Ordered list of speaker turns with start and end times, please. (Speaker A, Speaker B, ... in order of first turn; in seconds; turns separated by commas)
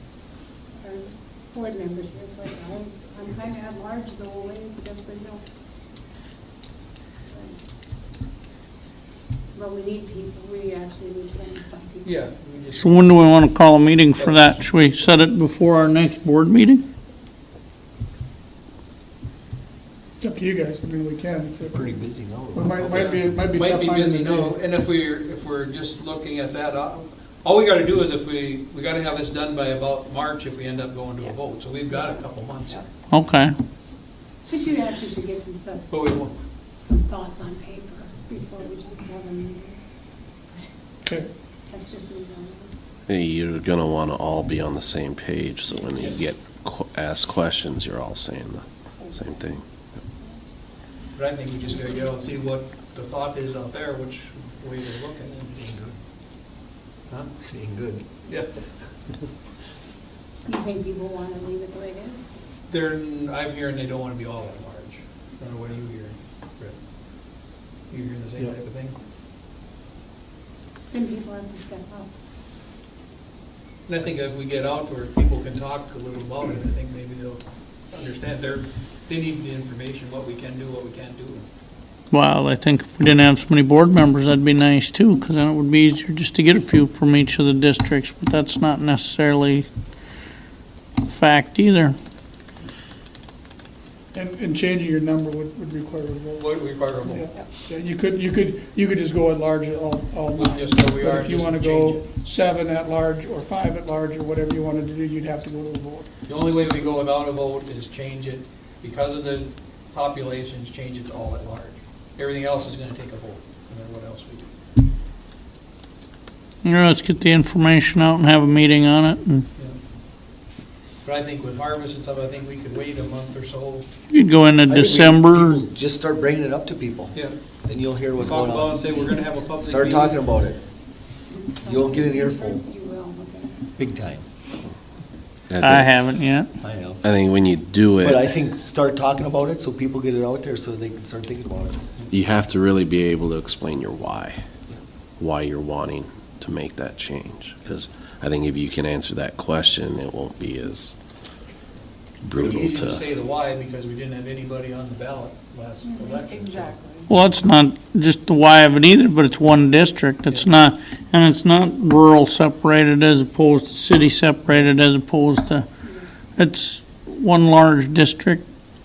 Speaker A: 0.8-5.4, Speaker A: 7.3-7.6, Speaker A: 9.5-12.1, Speaker B: 12.0-13.2, Speaker C: 12.8-16.8, Speaker B: 14.1-14.7, Speaker D: 20.2-22.0, Speaker E: 21.7-23.1, Speaker D: 22.5-24.6, Speaker B: 22.9-32.9, Speaker C: 33.1-33.5, Speaker A: 34.5-36.1, Speaker B: 35.9-36.3, Speaker A: 36.8-39.8, Speaker A: 41.7-42.7, Speaker F: 43.1-49.6, Speaker B: 51.1-55.4, Speaker E: 55.4-56.0, Speaker B: 57.1-57.3, Speaker E: 57.4-58.1, Speaker B: 58.2-58.7, Speaker A: 60.5-62.2, Speaker B: 62.7-66.8, Speaker B: 67.3-69.0, Speaker A: 70.9-72.1, Speaker B: 73.9-81.5, Speaker C: 82.1-89.7, Speaker C: 91.1-92.0, Speaker D: 94.1-96.5, Speaker B: 96.3-97.3, Speaker D: 97.0-106.1, Speaker B: 100.3-102.1, Speaker B: 106.3-114.5, Speaker C: 116.6-119.5, Speaker B: 121.0-123.9, Speaker C: 124.1-125.6, Speaker E: 124.7-129.0, Speaker B: 127.1-127.4, Speaker B: 128.2-130.4, Speaker E: 129.6-130.6, Speaker A: 131.3-133.7, Speaker E: 131.7-132.6, Speaker E: 133.8-134.2, Speaker F: 135.5-136.1, Speaker C: 135.6-136.5, Speaker E: 136.6-137.0, Speaker F: 137.0-138.4, Speaker E: 138.0-141.8, Speaker F: 142.1-144.4, Speaker F: 145.2-151.0, Speaker F: 152.2-153.0, Speaker B: 152.3-156.8, Speaker A: 155.8-157.0, Speaker C: 157.1-165.7, Speaker B: 160.3-160.5, Speaker C: 166.4-168.4